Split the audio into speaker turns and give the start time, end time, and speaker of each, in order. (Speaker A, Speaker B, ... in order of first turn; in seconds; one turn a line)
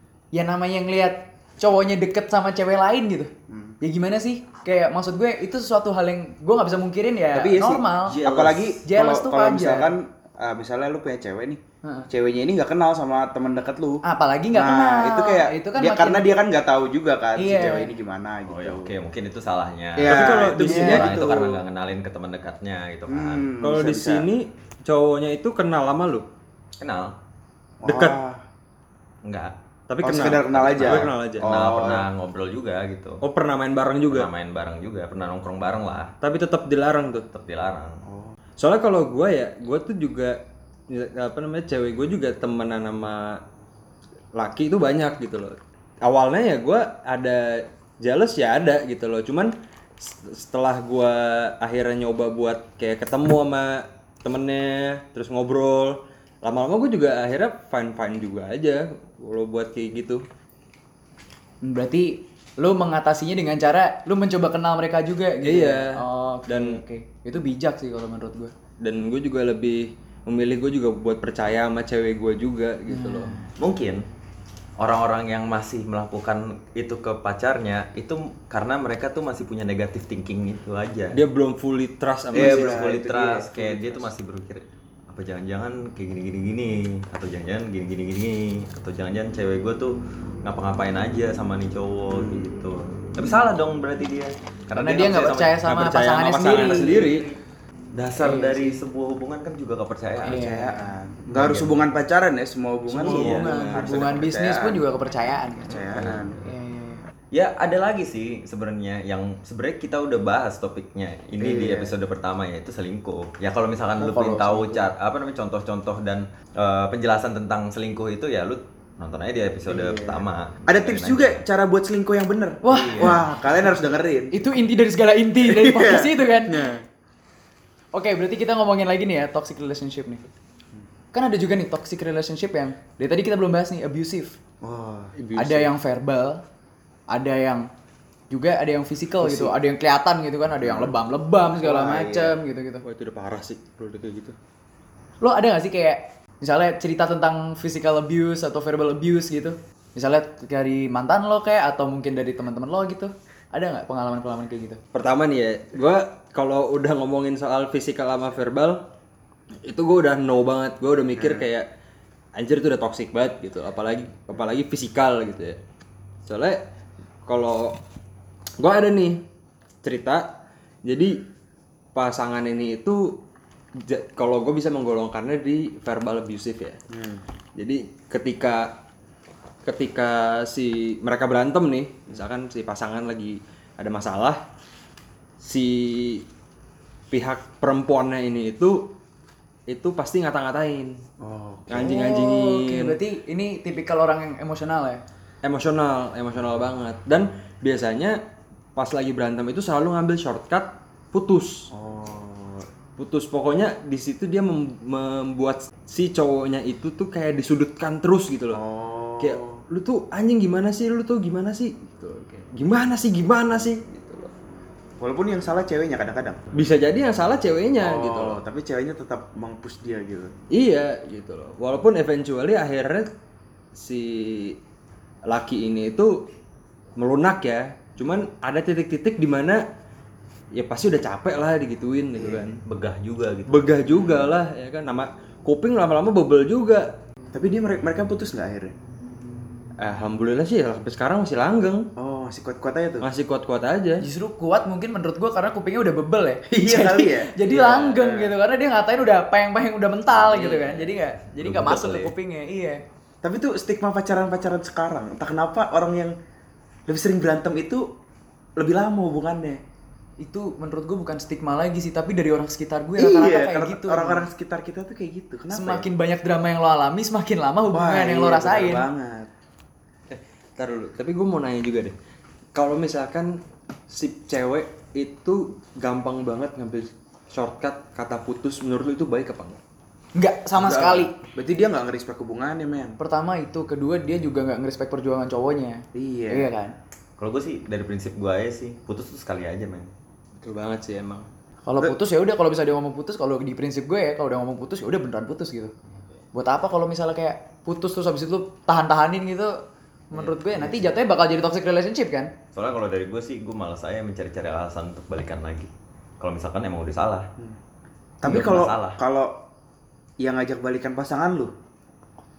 Speaker A: 0.3-8.2
Speaker B: 3.5-3.8
Speaker B: 7.3-18.9
Speaker C: 8.1-8.7
Speaker A: 8.8-9.9
Speaker A: 11.8-12.1
Speaker A: 14.0-16.4
Speaker A: 17.4-17.9
Speaker D: 18.5-23.5
Speaker B: 20.0-21.6
Speaker C: 20.0-21.1
Speaker B: 23.1-24.3
Speaker C: 23.6-26.3
Speaker D: 26.8-27.1
Speaker B: 27.8-28.4
Speaker C: 27.9-28.2
Speaker D: 29.2-29.5
Speaker C: 29.9-31.5
Speaker B: 30.0-32.1
Speaker D: 30.1-33.2
Speaker C: 33.2-34.3
Speaker D: 34.1-36.1
Speaker C: 36.2-37.3
Speaker D: 37.3-38.0
Speaker B: 38.1-38.4
Speaker C: 38.6-43.4
Speaker C: 44.4-60.2
Speaker A: 61.6-68.5
Speaker C: 65.4-66.8
Speaker C: 68.8-73.4
Speaker A: 72.9-73.5
Speaker D: 73.6-74.0
Speaker D: 74.8-81.2
Speaker C: 81.1-82.8
Speaker B: 82.3-84.1
Speaker D: 82.3-95.6
Speaker B: 92.1-92.5
Speaker A: 94.8-97.2
Speaker C: 95.6-97.3
Speaker D: 96.6-97.3
Speaker D: 97.9-100.4
Speaker A: 98.2-98.8
Speaker A: 100.2-100.8
Speaker B: 100.2-104.8
Speaker D: 101.3-101.9
Speaker C: 102.9-104.0
Speaker D: 103.0-103.5
Speaker A: 103.1-105.8
Speaker B: 105.7-106.4
Speaker A: 106.4-107.1
Speaker D: 107.3-121.4
Speaker B: 111.4-111.9
Speaker B: 114.0-114.6
Speaker A: 114.1-114.8
Speaker B: 119.7-124.3
Speaker A: 122.6-123.2
Speaker D: 122.7-123.2
Speaker A: 124.3-126.6
Speaker B: 125.4-126.8
Speaker A: 127.9-130.2
Speaker A: 131.1-134.4
Speaker B: 134.6-135.2
Speaker C: 135.2-135.7
Speaker A: 135.4-136.4
Speaker A: 137.1-137.7
Speaker A: 138.3-142.8
Speaker B: 139.2-139.6
Speaker B: 140.6-141.0
Speaker B: 141.5-142.4
Speaker C: 142.8-144.4
Speaker A: 145.2-154.8
Speaker C: 154.9-158.9
Speaker C: 159.6-161.7
Speaker B: 161.2-161.5
Speaker C: 162.3-165.6
Speaker C: 166.2-166.6
Speaker C: 167.3-167.8
Speaker C: 168.6-169.2
Speaker C: 169.8-171.2
Speaker C: 171.9-173.2
Speaker C: 173.8-176.8
Speaker B: 176.9-177.2
Speaker C: 177.6-178.8
Speaker C: 179.6-184.4
Speaker C: 185.4-186.3
Speaker C: 187.1-188.9
Speaker C: 189.7-191.0
Speaker B: 191.2-192.0
Speaker C: 191.7-193.0
Speaker A: 191.8-195.0
Speaker C: 195.4-198.2
Speaker C: 198.8-201.7
Speaker B: 201.7-202.7
Speaker C: 203.0-208.6
Speaker B: 208.5-209.6
Speaker C: 209.2-214.3
Speaker B: 215.0-216.4
Speaker C: 216.5-218.4
Speaker B: 217.8-220.3
Speaker C: 220.5-223.1
Speaker C: 223.7-224.6
Speaker C: 225.3-226.3
Speaker C: 227.0-229.6
Speaker C: 230.5-232.6
Speaker B: 232.2-232.5
Speaker D: 232.7-233.8
Speaker C: 233.5-236.9
Speaker B: 233.9-234.3
Speaker B: 237.3-238.7
Speaker C: 239.8-241.9
Speaker B: 242.0-243.1
Speaker C: 243.0-244.1
Speaker A: 244.0-252.8
Speaker B: 246.5-248.3
Speaker D: 250.3-252.1
Speaker B: 253.2-256.1
Speaker B: 256.9-257.9
Speaker B: 258.6-259.6
Speaker A: 260.2-264.3
Speaker B: 263.0-265.9
Speaker A: 265.5-268.9
Speaker B: 267.7-269.3
Speaker C: 270.1-272.0
Speaker C: 272.6-273.4
Speaker C: 273.9-279.6
Speaker A: 280.2-281.1
Speaker B: 280.5-283.0
Speaker A: 283.0-286.7
Speaker B: 285.9-286.5
Speaker D: 287.2-289.9
Speaker C: 290.4-291.3
Speaker A: 291.6-295.7
Speaker A: 296.3-299.6
Speaker A: 300.1-302.3
Speaker B: 300.5-300.9
Speaker D: 302.5-307.3
Speaker B: 308.2-309.4
Speaker D: 308.2-309.0
Speaker B: 310.2-311.5